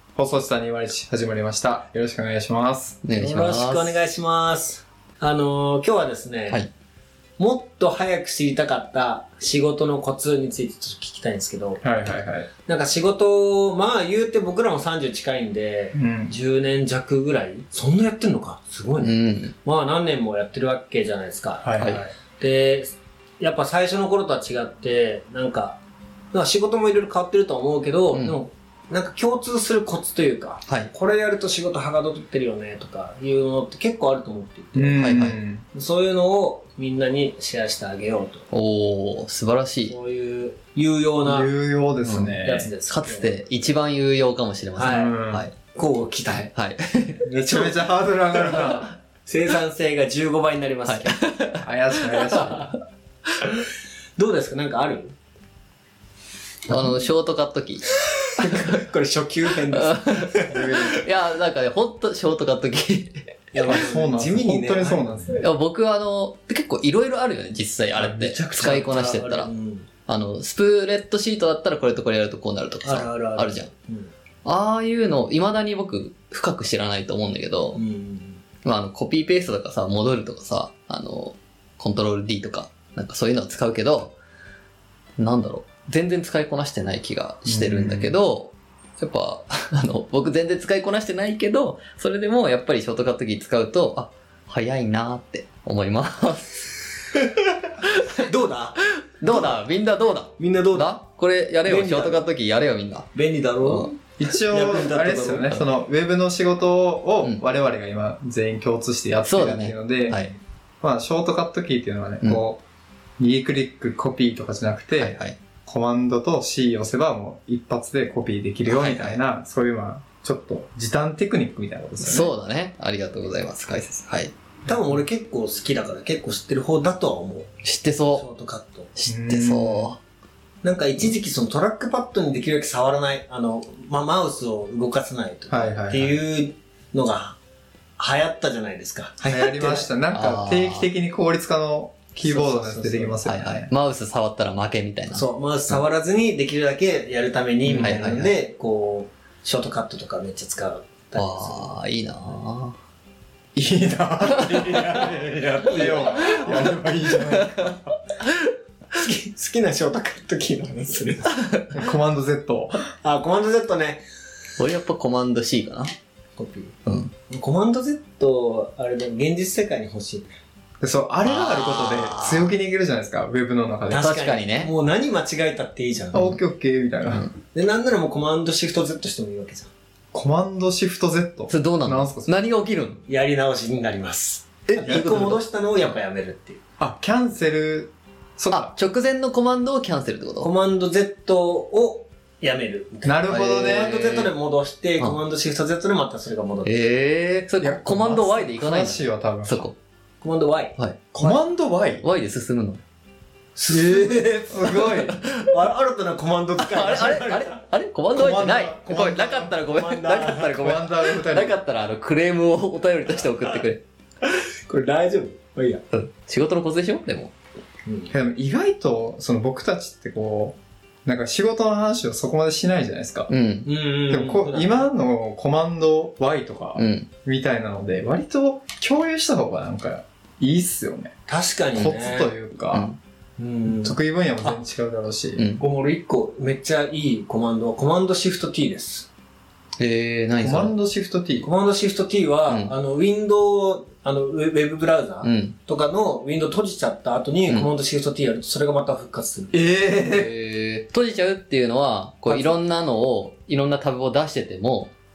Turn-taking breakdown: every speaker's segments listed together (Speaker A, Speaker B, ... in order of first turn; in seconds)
Speaker A: 0.2-3.0, 11.8-12.5, 15.9-16.4, 21.6-22.0, 34.8-35.7, 41.2-42.7, 44.9-45.5, 47.5-48.9, 51.6-52.7, 60.5-61.0, 63.6-65.5, 68.0-68.8, 87.5-88.1, 104.2-110.3, 110.8-112.6, 113.2-122.3, 129.1-129.9, 135.5-136.2, 139.2-143.7, 153.6-157.8, 161.7-162.9, 170.8-174.1, 176.1-177.3, 180.1-182.3, 184.7-185.4, 186.8-188.8, 193.1-194.0, 197.6-199.7, 201.1-202.1, 203.7-205.2, 208.1-209.5, 210.5-211.6, 218.1-223.3, 224.1-231.2, 231.7-232.9, 233.7-235.5, 240.4-241.5, 249.5-250.3
Speaker B: 3.0-4.0, 19.0-19.5, 21.8-22.0, 35.0-35.4, 38.5-39.9, 42.0-45.5, 46.3-47.3, 50.9-52.7, 56.7-58.8, 59.7-63.4, 65.4-69.5, 70.1-73.7, 74.5-77.8, 78.6-84.2, 85.2-96.6, 97.8-98.2, 99.2-103.1, 103.6-103.9, 109.3-110.4, 115.0-115.4, 118.7-119.2, 122.0-124.3, 127.6-128.2, 128.9-130.0, 140.1-140.9, 143.2-145.2, 147.7-148.3, 151.2-152.8, 154.3-155.0, 155.8-156.5, 157.1-158.5, 164.6-165.9, 166.9-167.1, 171.2-172.5, 173.9-174.7, 181.5-183.0, 188.5-190.5, 193.3-194.3, 196.6-199.8, 200.8-201.4, 202.0-202.8, 205.1-205.5, 206.6-213.8, 215.9-217.3, 223.3-223.7, 226.8-227.1, 232.7-233.0, 235.4-235.6, 239.8-240.8, 242.5-242.7, 245.2-245.6, 250.1-254.9
Speaker C: 3.1-6.6, 7.4-11.8, 12.7-25.8, 26.3-35.0, 35.7-38.5, 39.9-41.5, 42.4-43.3, 44.8-46.5, 47.2-48.7, 49.3-51.2, 54.2-55.1, 58.2-61.0, 63.5-65.4, 68.5-69.9, 72.8-74.1, 77.8-78.4, 98.1-99.6, 100.4-101.0, 101.7-102.2, 103.1-105.6, 124.7-127.6, 128.2-128.9, 130.6-137.4, 138.0-139.9, 142.2-143.2, 145.1-151.8, 155.6-156.7, 159.0-161.4, 163.0-164.0, 166.4-170.4, 173.9-176.4, 177.5-179.7, 183.1-186.6, 190.4-196.8, 200.2-200.8, 203.6-207.6, 209.7-210.7, 214.7-215.8, 217.9-218.1, 223.7-224.9, 231.3-232.3, 233.4-234.0, 235.6-239.1, 241.4-249.8, 252.3-252.6